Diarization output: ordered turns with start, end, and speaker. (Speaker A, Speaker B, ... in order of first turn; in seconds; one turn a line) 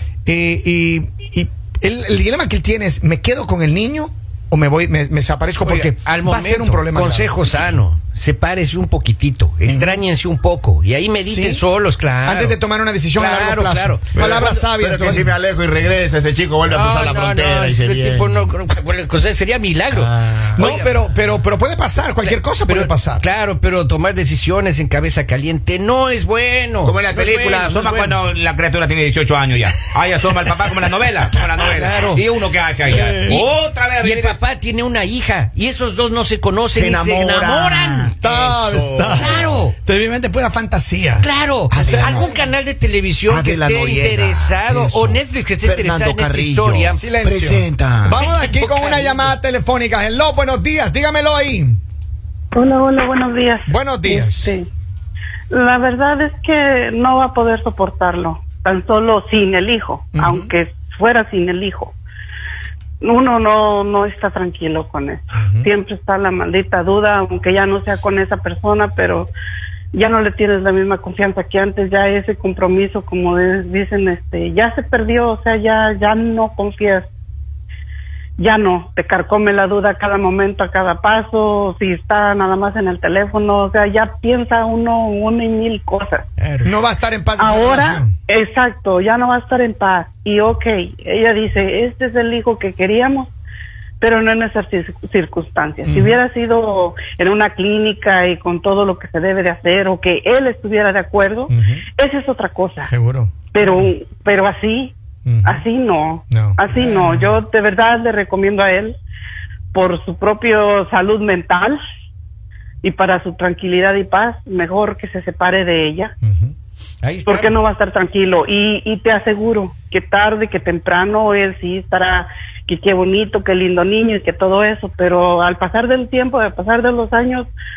Speaker A: 0.3-7.4
Speaker B: 5.6-12.6
Speaker A: 9.7-10.0
Speaker A: 11.3-11.6
Speaker A: 12.2-15.3
Speaker B: 13.2-14.6
Speaker C: 14.2-18.5
Speaker B: 16.7-20.9
Speaker C: 19.9-20.7
Speaker A: 20.6-23.2
Speaker B: 22.2-28.2
Speaker D: 26.9-34.3
Speaker C: 27.1-27.7
Speaker B: 31.7-32.2
Speaker A: 32.9-33.4
Speaker B: 34.0-38.2
Speaker C: 37.3-37.9
Speaker A: 38.2-42.3
Speaker B: 39.1-39.8
Speaker B: 41.2-47.1
Speaker C: 43.5-45.1
Speaker C: 45.7-46.8
Speaker A: 46.9-51.8
Speaker B: 48.1-49.3
Speaker E: 52.5-54.7
Speaker A: 53.7-54.5
Speaker E: 55.5-62.0
Speaker A: 60.1-60.5
Speaker E: 63.0-69.3
Speaker A: 65.4-65.7
Speaker E: 69.9-77.1
Speaker E: 78.4-86.3
Speaker B: 86.4-86.8
Speaker A: 86.7-88.1
Speaker E: 87.4-93.3
Speaker E: 94.0-102.9
Speaker A: 95.8-96.2
Speaker A: 101.5-101.8
Speaker A: 102.9-103.9
Speaker E: 103.5-109.0
Speaker A: 105.3-105.7
Speaker A: 106.3-107.1
Speaker E: 109.7-111.8
Speaker E: 112.8-116.1
Speaker A: 116.2-116.5
Speaker B: 117.0-117.6
Speaker E: 117.3-127.5